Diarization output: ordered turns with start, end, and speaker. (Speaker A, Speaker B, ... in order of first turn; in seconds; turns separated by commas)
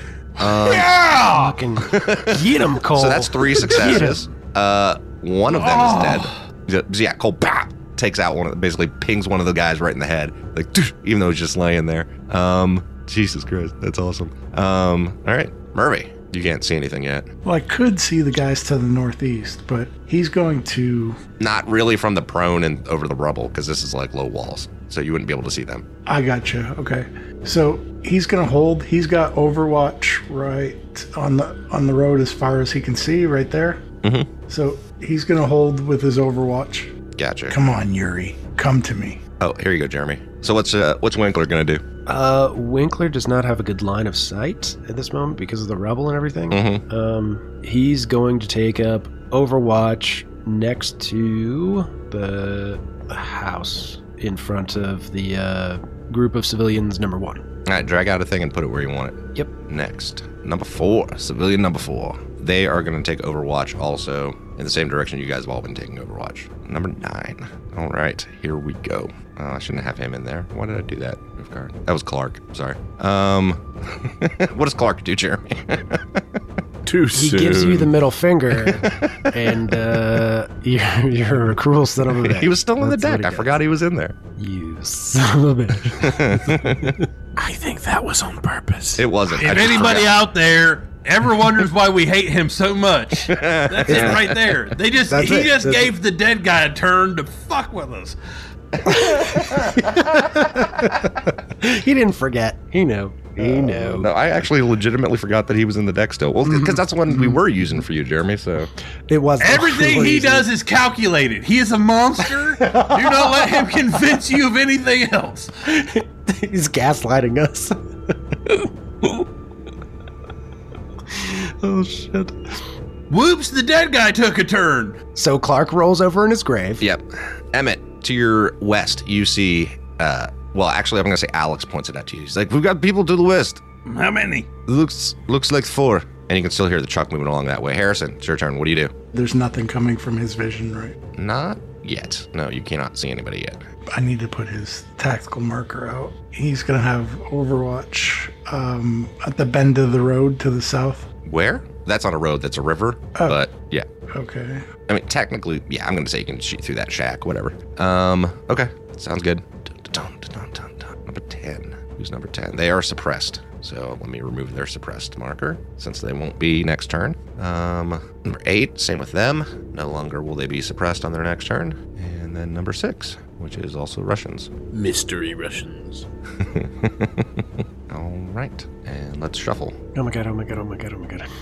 Speaker A: 0.4-0.9, Speaker B: 0.6-1.6, Speaker C: 1.1-4.3, Speaker A: 1.8-17.3, Speaker B: 5.5-6.3, Speaker D: 17.4-21.2, Speaker A: 21.4-25.8, Speaker D: 26.1-33.8, Speaker A: 34.0-34.3, Speaker D: 34.5-36.9, Speaker A: 37.2-37.6, Speaker D: 37.5-39.2, Speaker A: 39.4-41.8, Speaker C: 42.0-57.4, Speaker A: 46.5-46.8, Speaker A: 57.6-76.2, Speaker E: 76.8-77.9, Speaker C: 77.1-83.6, Speaker A: 78.8-79.3, Speaker A: 82.2-84.2, Speaker C: 84.4-87.0, Speaker A: 85.9-87.0, Speaker E: 87.3-89.6, Speaker A: 89.0-90.2, Speaker B: 89.4-98.2, Speaker A: 93.3-94.5, Speaker C: 93.9-94.2, Speaker C: 95.0-95.9, Speaker A: 98.8-99.7, Speaker C: 99.0-104.1, Speaker A: 103.8-108.7, Speaker C: 106.5-106.8, Speaker C: 109.1-110.5, Speaker B: 109.4-115.5, Speaker C: 112.4-113.7, Speaker C: 115.6-117.8, Speaker C: 121.1-122.3, Speaker B: 123.1-125.0, Speaker C: 125.1-126.8, Speaker A: 126.8-133.6, Speaker B: 133.8-134.5, Speaker A: 134.7-138.9, Speaker D: 139.1-141.0, Speaker A: 141.1-143.6, Speaker D: 143.9-151.1, Speaker A: 151.2-153.8, Speaker D: 154.1-154.6, Speaker A: 154.9-174.5, Speaker E: 174.7-176.1, Speaker A: 176.4-179.8, Speaker C: 179.9-181.3